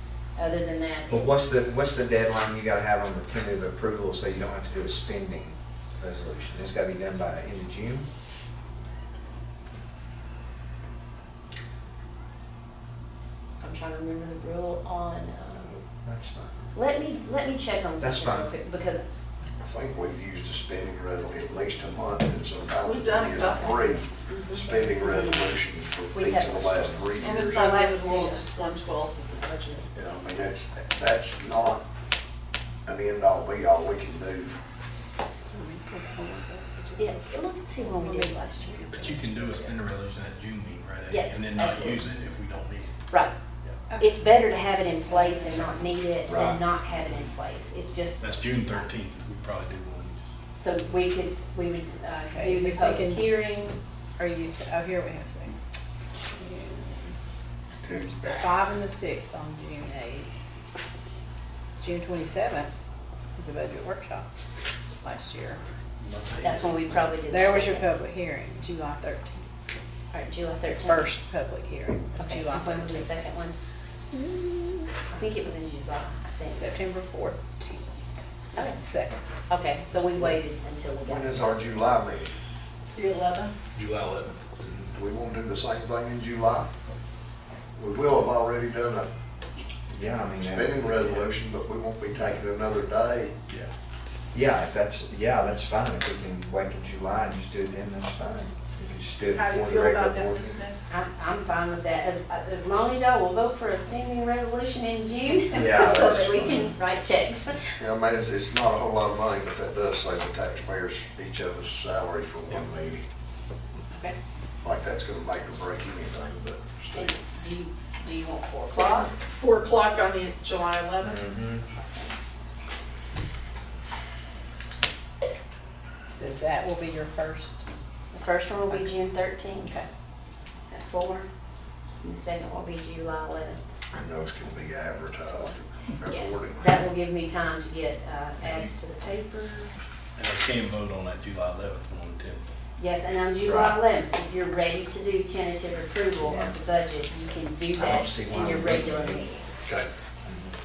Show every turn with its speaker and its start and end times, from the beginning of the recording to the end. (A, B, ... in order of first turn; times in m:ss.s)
0:00.4-0:01.3 A
0:01.1-0:08.1 B
0:13.6-0:15.8 A
0:16.0-0:16.7 B
0:16.8-0:19.0 A
0:18.0-0:18.5 B
0:19.6-0:27.7 C
0:22.8-0:24.6 D
0:24.3-0:25.4 A
0:26.1-0:28.4 A
0:27.2-0:29.9 D
0:29.9-0:31.9 C
0:32.9-0:34.6 C
0:35.5-0:37.3 E
0:37.0-0:39.6 A
0:37.8-0:39.7 E
0:39.0-0:39.4 D
0:39.0-0:42.9 F
0:41.1-0:42.1 A
0:43.9-0:45.8 E
0:44.0-0:48.9 A
0:46.3-0:46.6 B
0:48.2-0:50.2 F
0:50.6-0:53.8 A
0:52.3-0:53.4 E
0:54.2-0:55.6 E
0:56.2-0:57.2 E
0:57.8-0:58.6 C
0:57.8-1:00.3 E
1:01.8-1:02.7 E
1:03.4-1:04.3 E
1:05.0-1:05.6 E
1:06.4-1:07.9 A
1:07.3-1:09.5 E
1:10.1-1:11.2 A
1:10.7-1:13.1 E
1:12.2-1:13.6 A
1:14.1-1:14.9 E
1:15.1-1:16.8 A
1:16.5-1:18.0 E
1:18.5-1:19.2 E
1:18.6-1:18.8 A
1:19.5-1:21.8 A
1:21.0-1:22.3 C
1:23.0-1:23.6 D
1:23.8-1:24.8 F
1:24.9-1:26.7 C
1:27.8-1:29.1 C
1:29.9-1:31.3 B
1:30.4-1:33.3 C
1:34.3-1:40.6 B
1:39.3-1:40.8 D
1:40.9-1:47.7 A
1:45.5-1:46.7 B
1:47.8-1:53.0 C
1:54.6-1:57.2 C
1:57.0-1:59.1 A
1:58.7-2:01.3 D
2:01.0-2:01.7 B
2:06.1-2:07.7 E
2:08.1-2:09.8 A
2:09.6-2:09.9 E
2:10.7-2:11.3 A
2:12.0-2:13.6 A
2:13.9-2:16.8 C
2:16.0-2:19.7 A
2:20.2-2:22.4 F
2:22.8-2:29.5 A
2:23.4-2:23.8 B
2:26.2-2:26.5 B
2:27.8-2:29.3 B
2:30.2-2:30.6 B